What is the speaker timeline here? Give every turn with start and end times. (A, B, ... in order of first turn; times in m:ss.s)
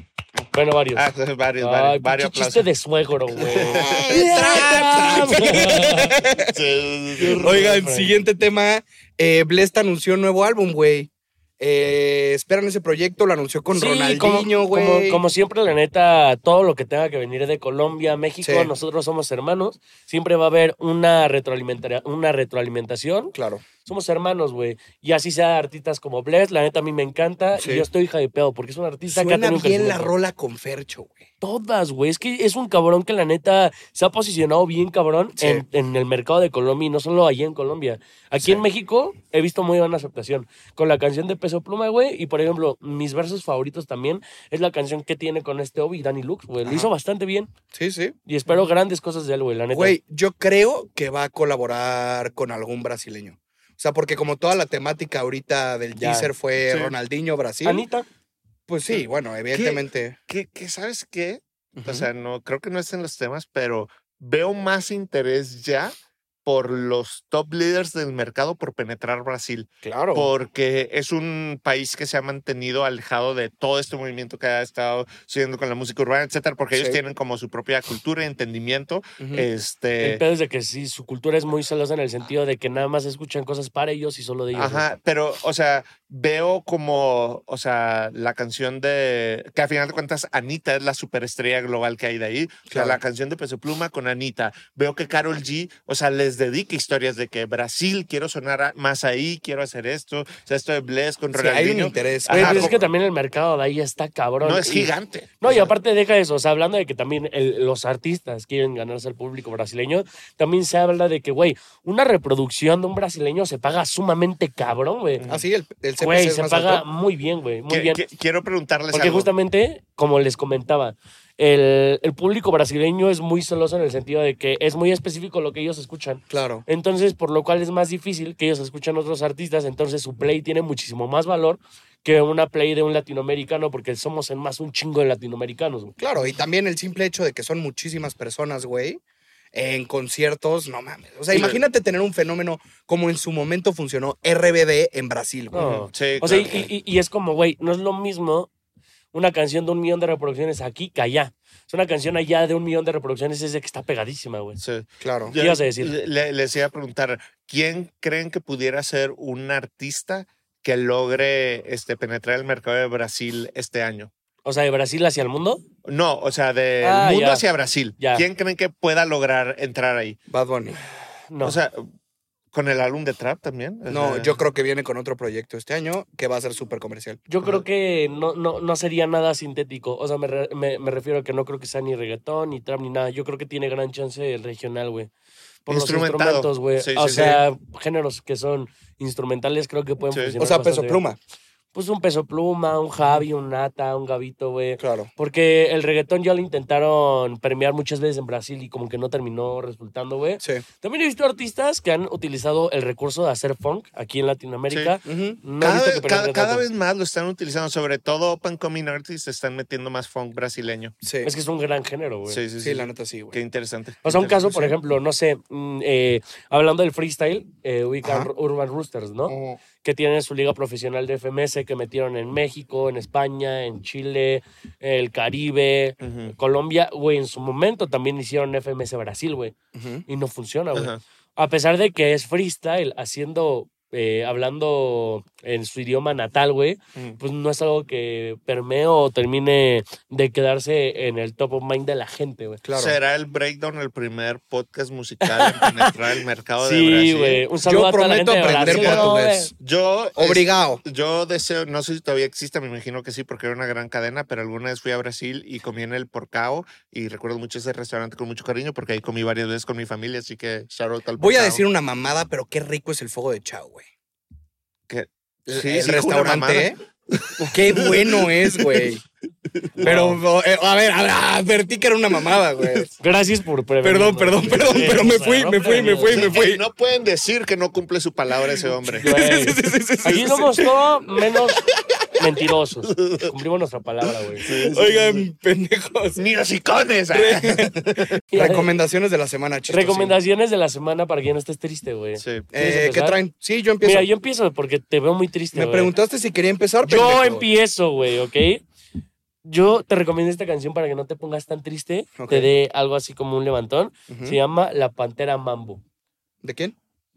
0:00.5-0:01.1 A
0:01.0-0:02.7 B
0:01.6-0:06.2 A
0:03.4-0:05.4 B
0:03.4-0:06.6 C
0:06.4-0:07.6 B
0:07.2-0:08.2 A
0:07.3-0:15.2 C
0:13.7-0:23.3 A
0:18.4-0:18.7 C
0:23.3-0:23.6 C
0:23.8-0:30.1 A
0:27.6-0:27.9 C
0:29.1-0:31.3 C
0:31.4-0:47.5 A
0:35.4-0:35.6 C
0:46.6-0:46.9 C
0:47.7-0:48.2 C
0:48.3-0:50.0 A
0:49.7-0:57.8 C
0:56.0-0:56.3 A
0:56.6-0:57.0 B
0:57.6-0:58.1 A
0:58.7-1:00.2 C
0:58.9-1:20.2 B
1:01.8-1:02.1 C
1:09.8-1:10.3 C
1:16.7-1:17.0 C
1:19.2-1:19.5 C
1:20.0-1:24.9 A
1:24.5-1:42.8 B
1:32.7-1:33.0 C
1:41.3-1:42.8 C
1:42.3-1:55.2 A
1:44.4-1:45.5 B
1:55.2-1:55.5 B
1:55.3-1:56.8 C
1:56.0-1:58.0 A
1:57.7-1:59.3 B
1:58.9-2:16.0 A
2:06.3-2:06.6 C
2:16.0-2:19.0 C
2:19.5-2:25.9 C
2:21.3-2:21.6 B
2:25.5-2:28.5 A
2:25.6-2:26.7 B
2:29.1-2:34.6 A
2:34.6-2:44.1 B
2:35.0-2:35.3 C
2:35.4-2:35.9 A
2:44.4-2:45.6 A
2:45.8-2:50.2 B
2:46.8-2:47.5 A
2:48.0-2:48.3 A
2:50.3-2:50.8 C
2:51.3-2:51.6 A
2:51.4-2:51.9 B
2:52.5-2:54.4 B
2:53.9-2:57.2 C
2:57.3-3:05.1 A
3:05.7-3:11.0 A
3:05.7-3:07.4 B
3:10.1-3:10.4 B
3:10.4-3:11.2 C
3:11.7-3:26.6 A
3:14.8-3:15.1 C
3:24.7-3:25.0 B
3:25.0-3:25.4 C
3:25.6-3:31.0 B
3:31.0-3:31.3 C
3:31.2-3:32.4 A
3:32.3-3:34.7 B
3:32.6-3:33.4 C
3:34.0-3:49.6 A
3:38.0-3:38.3 C
3:39.3-3:39.6 B
3:46.0-3:46.4 B
3:49.8-3:50.0 C
3:50.1-4:02.6 A
3:50.7-3:51.0 B
4:02.6-4:03.0 C
4:02.8-4:07.4 B
4:05.2-4:06.0 A
4:06.6-4:09.5 A
4:07.6-4:09.5 C
4:08.5-4:21.6 B
4:10.2-4:10.8 C
4:21.2-4:23.9 C
4:24.9-4:29.0 B
4:25.5-4:26.8 C
4:27.4-4:29.0 C
4:29.6-4:30.0 B
4:29.8-4:32.9 C
4:29.8-4:30.2 A
4:33.0-4:36.4 A
4:33.8-4:36.6 C
4:36.1-4:39.1 B
4:38.4-4:40.7 C
4:39.0-4:41.6 A
4:40.1-4:40.4 B
4:41.6-4:42.1 B
4:42.2-4:44.5 A
4:42.8-4:43.3 B
4:44.4-4:46.2 C
4:44.4-4:45.2 B
4:46.2-4:48.2 B
4:47.1-4:50.2 C
4:48.3-4:48.7 A
4:49.7-4:53.2 A
4:52.2-4:52.5 B
4:52.5-4:54.1 C
4:53.8-4:55.9 A
4:55.5-4:57.5 C
4:56.8-4:58.6 A
4:59.4-5:05.8 A
5:02.2-5:02.5 C
5:04.1-5:04.4 C
5:06.4-5:06.8 C